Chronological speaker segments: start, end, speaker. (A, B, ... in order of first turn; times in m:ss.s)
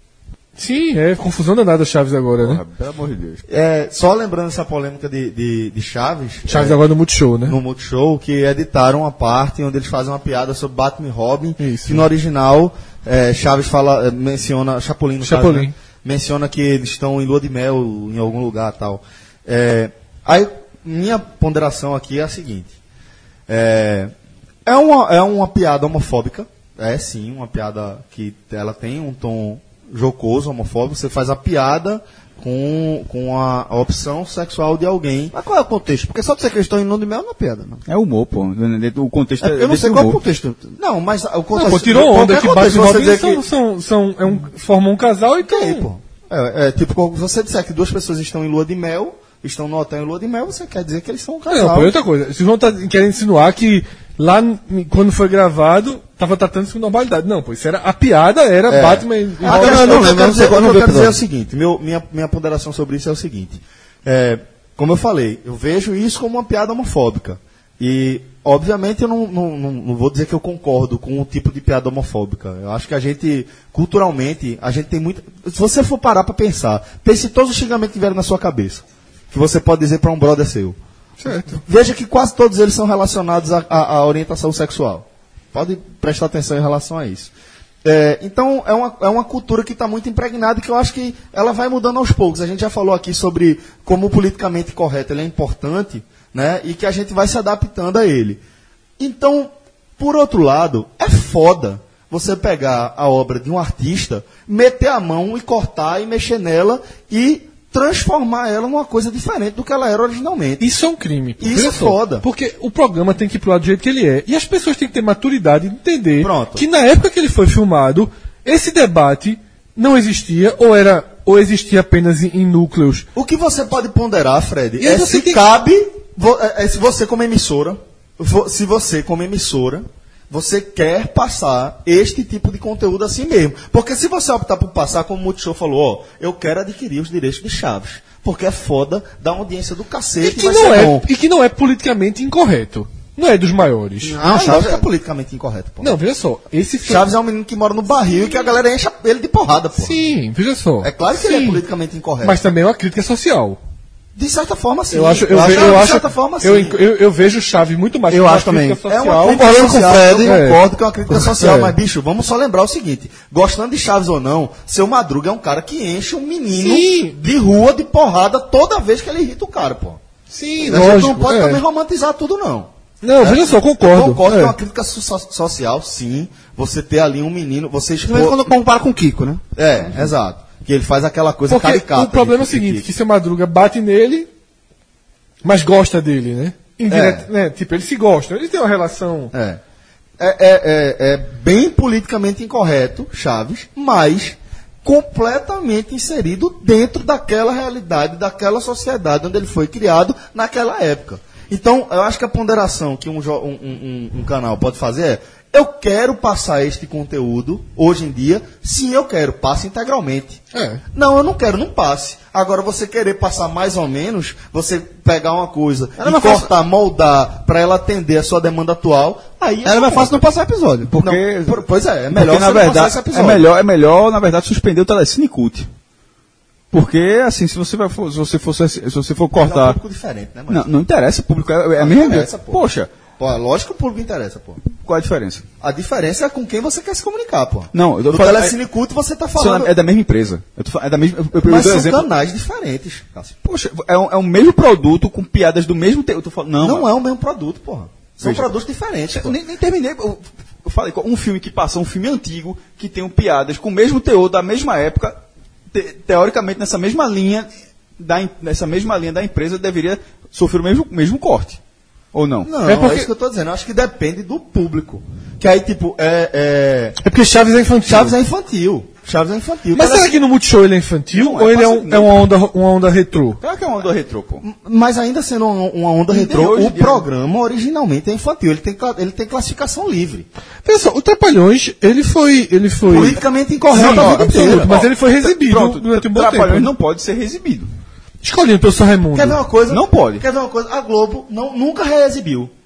0:00.6-0:02.6 A
0:02.4-0:03.4 B
0:03.5-0:06.8 C
0:06.5-0:07.6 A
0:07.5-0:22.7 C
0:11.6-0:12.0 A
0:15.2-0:15.7 A
0:23.5-0:24.1 C
0:24.6-0:35.3 C
0:35.3-0:37.8 D
0:37.9-0:40.2 B
0:39.4-0:40.8 D
0:40.8-0:43.4 C
0:41.5-0:45.9 A
0:45.4-0:51.9 C
0:51.5-1:00.1 A
0:58.7-1:20.8 C
0:59.4-1:01.2 D
1:21.2-1:21.6 A
1:21.4-1:27.3 C
1:27.8-1:38.4 C
1:39.0-1:50.6 C
1:50.6-2:03.1 A
1:51.4-1:52.2 C
1:56.2-1:56.6 C
2:03.1-2:21.1 C
2:04.8-2:05.4 A
2:20.2-2:24.2 A
2:24.1-2:24.9 D
2:24.2-2:26.0 C
2:25.8-2:27.1 A
2:26.8-2:30.0 C
2:29.8-2:31.6 A
2:30.8-2:32.4 C
2:32.2-2:33.6 A
2:34.1-2:36.8 C
2:34.9-2:39.5 A
2:38.1-2:40.4 D
2:38.8-2:50.0 C
2:40.2-2:41.7 A
2:46.5-2:47.2 A
2:50.3-2:51.6 A
2:50.6-2:58.4 C
2:53.0-2:54.5 A
2:58.0-2:59.4 D
2:59.6-3:02.9 C
3:01.5-3:04.3 A
3:05.4-3:09.3 A
3:06.9-3:07.3 C
3:09.3-3:09.6 C
3:10.2-3:30.4 C
3:30.5-3:30.8 A
3:30.9-3:40.2 C
3:36.0-3:36.5 D
3:39.6-3:40.9 D
3:40.9-3:41.6 B
3:41.0-3:43.5 C
3:42.1-3:45.7 B
3:46.7-3:49.8 B
3:49.4-3:50.7 C
3:50.5-3:52.9 B
3:51.8-3:52.6 C
3:53.2-3:54.6 C
3:54.8-3:55.4 B
3:55.6-3:59.7 C
3:57.7-3:58.6 B
3:59.4-4:02.1 B
4:01.4-4:03.3 C
4:03.4-4:06.9 B
4:06.6-4:09.4 C
4:08.2-4:08.5 B
4:09.1-4:15.2 B
4:15.7-4:21.6 B
4:22.1-4:22.5 B
4:22.4-4:27.0 C
4:22.6-4:23.1 A
4:27.0-4:28.2 A
4:27.8-4:30.1 C
4:29.7-4:33.4 A
4:31.1-4:32.3 B
4:33.4-4:34.4 B
4:34.4-4:40.3 C
4:36.1-4:37.1 B
4:40.6-4:43.2 A
4:42.8-4:44.8 C
4:43.7-4:46.7 A
4:43.7-4:47.7 B
4:48.2-4:49.4 A
4:49.1-4:52.5 C
4:49.7-4:50.2 B